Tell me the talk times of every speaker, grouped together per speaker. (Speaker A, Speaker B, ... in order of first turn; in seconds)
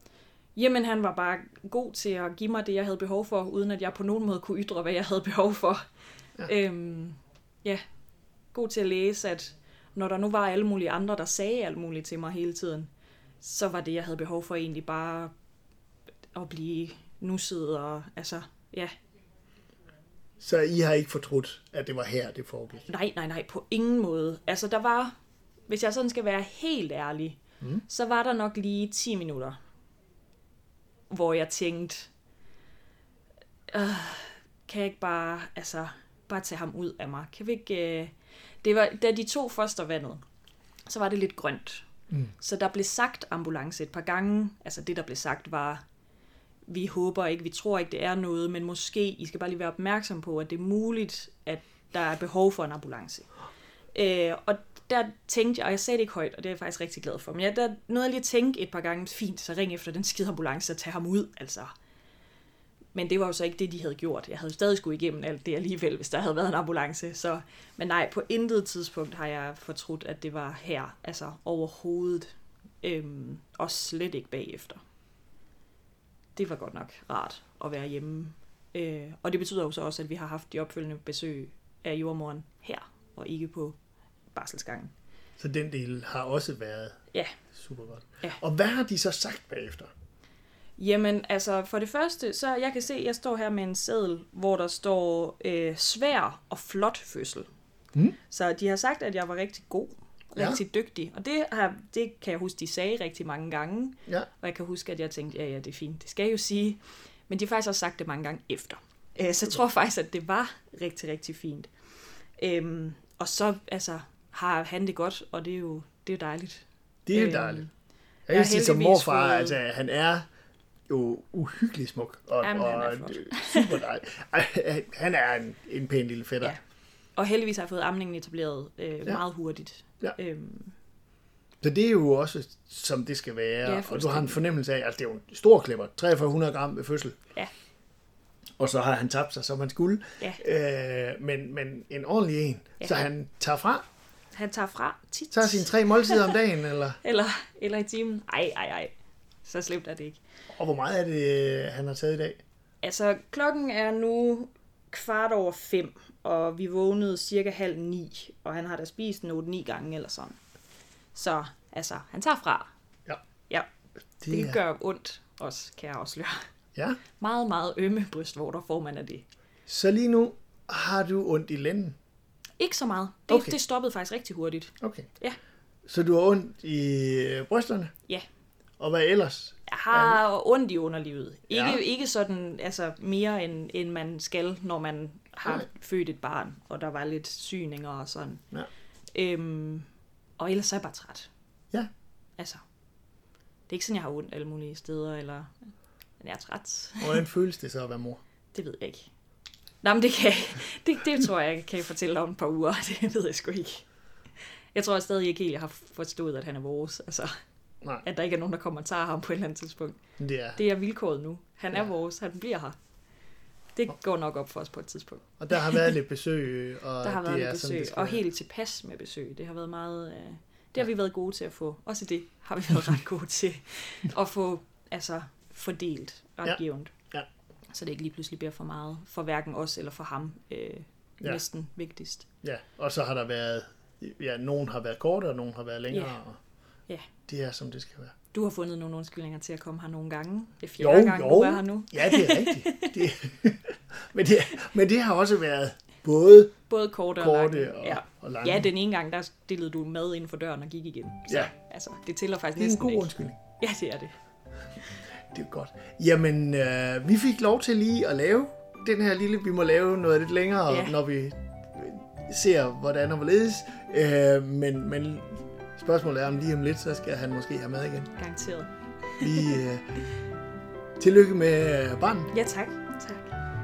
Speaker A: 0.6-5.8, 6.4-7.8, 8.5-12.9, 13.4-15.3, 16.3-18.9, 22.9-25.1, 25.7-29.6, 31.1-32.1, 33.7-40.2, 40.9-41.9, 42.4-45.8, 46.7-53.3, 53.9-61.7, 62.9-72.3, 72.8-74.8, 76.4-83.8, 84.3-84.9, 90.8-97.5, 98.3-111.7, 112.4-117.7, 118.3-119.6, 122.4-123.8, 127.2-130.8, 133.6-134.4, 142.8-143.1, 144.3-146.4, 147.0-148.9, 149.4-150.2, 152.8-160.4, 161.2-162.7, 164.3-166.4, 167.2-169.3, 172.6-175.4, 179.7-188.4, 189.1-189.9, 190.4-191.3, 193.7-195.5, 196.2-197.2, 198.5-199.1, 199.8-203.8, 204.7-207.3, 208.0-210.0, 210.6-212.8, 213.8-216.0, 217.0-226.9, 227.7-232.3, 235.9-236.2, 238.3-242.9, 246.7-254.2, 260.7-261.0, 268.2-269.6, 272.3-273.4
Speaker B: 20.4-22.9, 85.4-87.0, 87.6-89.9, 117.1-117.6, 118.3-120.2, 120.9-126.5, 131.6-137.2, 138.6-143.8, 145.3-147.0, 150.5-152.4, 164.2-164.6, 166.8-167.0, 169.7-172.0, 173.3-173.6, 174.8-175.1, 175.9-177.9, 178.8-180.2, 181.5-181.8, 197.0-198.2, 210.2-210.6, 215.4-218.2, 232.4-236.4, 237.3-238.1, 240.8-246.5, 247.2-248.7, 252.6-253.4, 255.3-268.1, 269.2-269.8, 271.0-272.3